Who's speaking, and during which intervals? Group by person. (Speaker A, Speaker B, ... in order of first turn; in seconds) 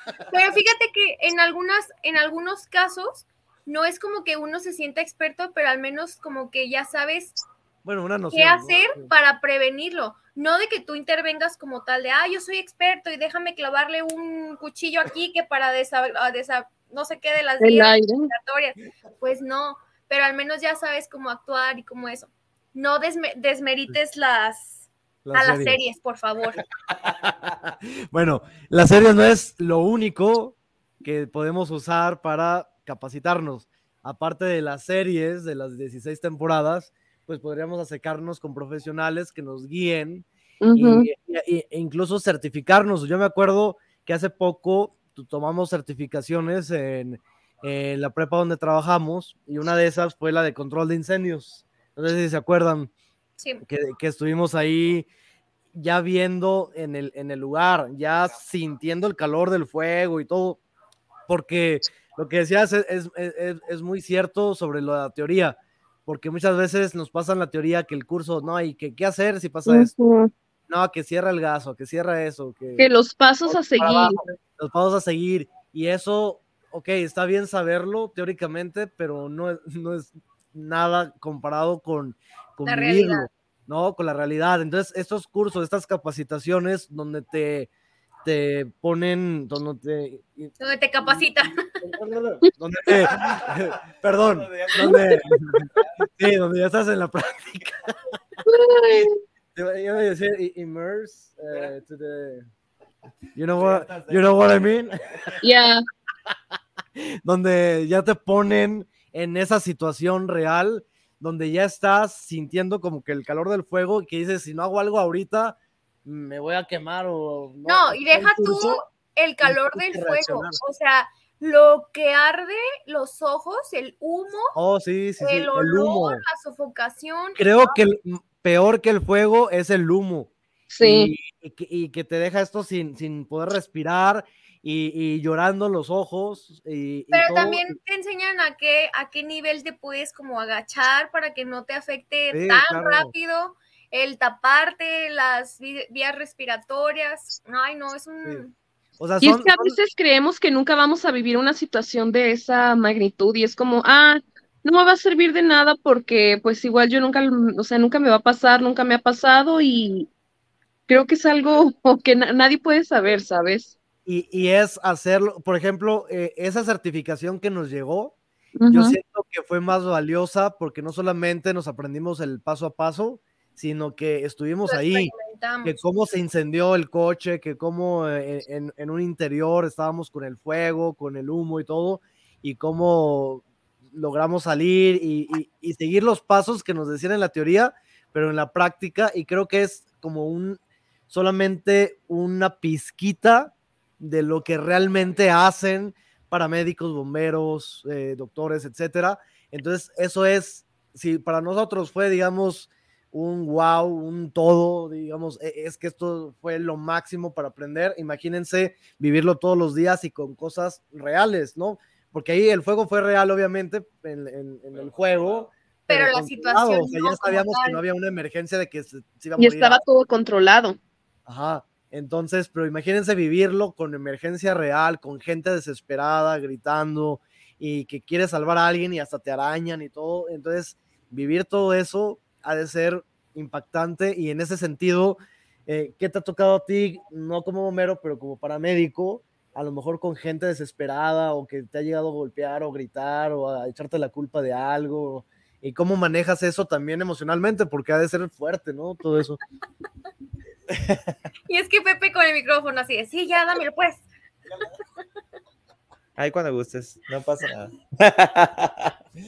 Speaker A: 0.3-7.4, 8.3-26.6, 53.4-53.6, 82.7-83.3, 90.6-91.6, 117.6-124.5, 125.2-127.8, 137.1-148.5, 174.6-175.8, 215.9-217.8, 251.5-254.1
Speaker B: 7.8-9.1, 25.2-25.8, 27.1-52.9, 53.6-55.1, 55.7-60.6, 61.3-69.9, 70.7-72.9, 73.5-87.7, 88.2-90.5, 91.0-97.9, 99.5-102.5, 103.3-105.2, 107.2-118.8, 119.4-120.6, 124.5-126.2, 127.4-137.6, 142.3-143.1, 149.0-149.8, 164.1-168.2, 168.7-175.1, 175.6-219.8, 221.2-249.4
Speaker C: 17.6-18.3, 40.6-41.1, 69.7-70.3, 72.8-74.2, 94.8-95.4, 98.4-99.1, 105.4-105.8, 130.7-131.1, 149.2-160.1, 160.9-163.7, 168.6-169.0, 219.4-220.8
Speaker D: 93.1-93.6, 94.3-94.9, 103.5-104.7, 214.7-215.5, 256.2-258.9